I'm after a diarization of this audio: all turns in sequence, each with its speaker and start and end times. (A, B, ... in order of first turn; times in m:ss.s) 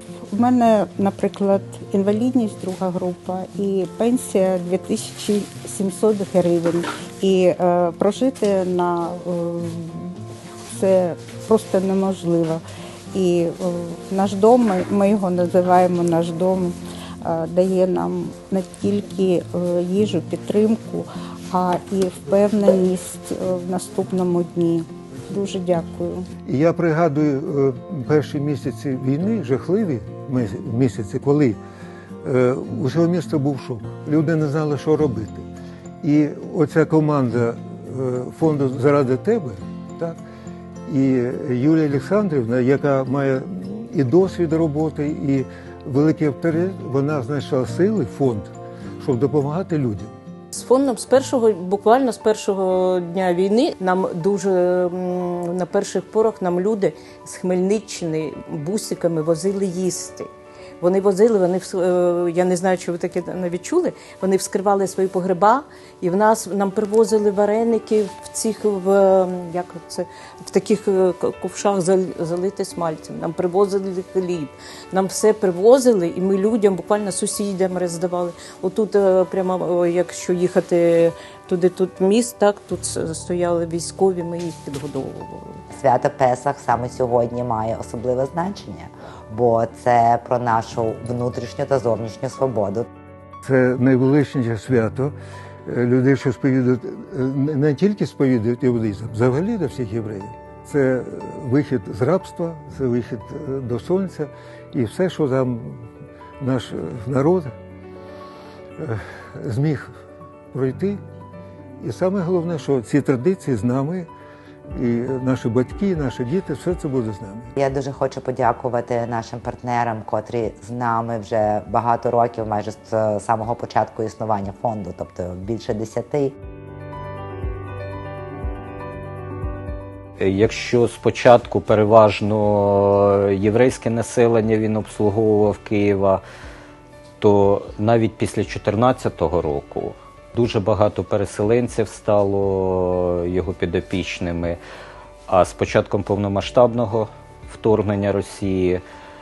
0:00.3-0:10.2 A
0:10.7-0:12.6 A
0:13.1-0:26.3 A
0:26.4-0:31.6 B
0:32.2-0:35.4 B
0:36.0-0:40.2 B
0:40.9-0:50.1 B
0:50.5-1:00.3 C
1:00.8-1:25.6 C
1:25.7-1:32.9 D
1:33.4-1:35.1 B
1:35.7-1:45.8 B
1:46.4-1:47.5 B
1:48.8-1:49.9 B
1:50.5-1:51.0 B
1:51.8-1:54.1 B
1:54.7-1:57.6 B
1:57.6-2:06.3 D
2:10.2-2:16.2 E
2:17.2-2:24.6 E
2:25.3-2:28.8 E